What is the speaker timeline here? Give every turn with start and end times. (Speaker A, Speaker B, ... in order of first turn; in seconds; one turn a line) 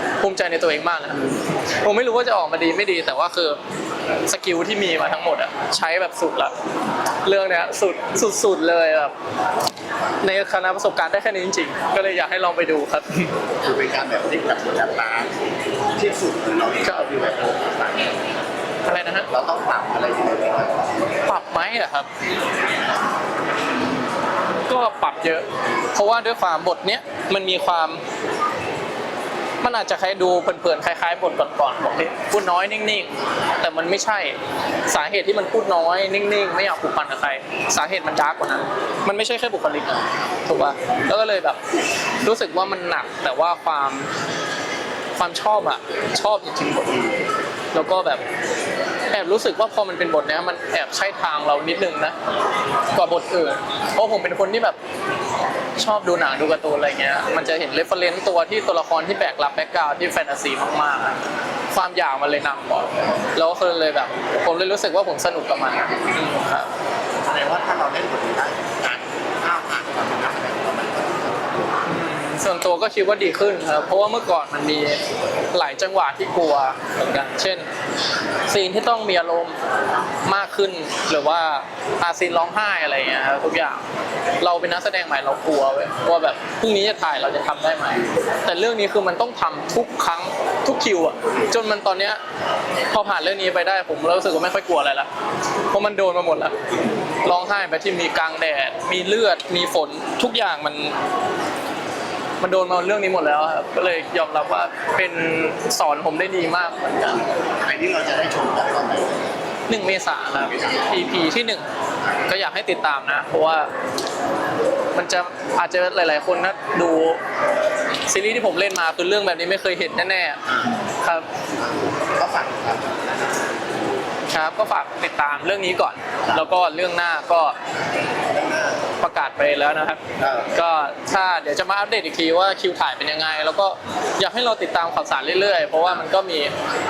Speaker A: 0.2-3.6
Speaker A: 4.2-6.5
Speaker A: 7.2-9.1
Speaker A: 10.2-13.3
Speaker B: 13.6-15.3
Speaker B: 15.9-18.3
Speaker A: 16.8-17.2
Speaker A: 18.9-19.3
Speaker B: 19.3-21.2
Speaker A: 21.2-22.1
Speaker A: 24.7-28.0
Speaker A: 29.6-34.4
Speaker A: 34.9-41.6
Speaker A: 42.2-44.1
Speaker A: 45.2-47.1
Speaker A: 47.7-48.2
Speaker A: 49.1-52.1
Speaker A: 52.9-54.8
Speaker A: 55.8-61.2
Speaker A: 61.7-66.7
Speaker B: 67.2-71.8
Speaker A: 71.8-75.0
Speaker A: 75.5-77.7
Speaker A: 78.5-79.6
Speaker A: 80.2-83.8
Speaker A: 84.4-92.2
Speaker A: 92.9-95.1
Speaker A: 95.7-96.5
Speaker A: 97.2-100.9
Speaker A: 102.4-107.3
Speaker B: 107.4-109.4
Speaker A: 109.7-111.6
Speaker B: 110.5-110.8
Speaker A: 112.2-113.7
Speaker A: 114.9-117.2
Speaker A: 118.0-121.2
Speaker B: 121.6-123.8
Speaker A: 124.2-127.5
Speaker B: 128.3-128.9
Speaker A: 129.0-136.5
Speaker B: 130.2-130.5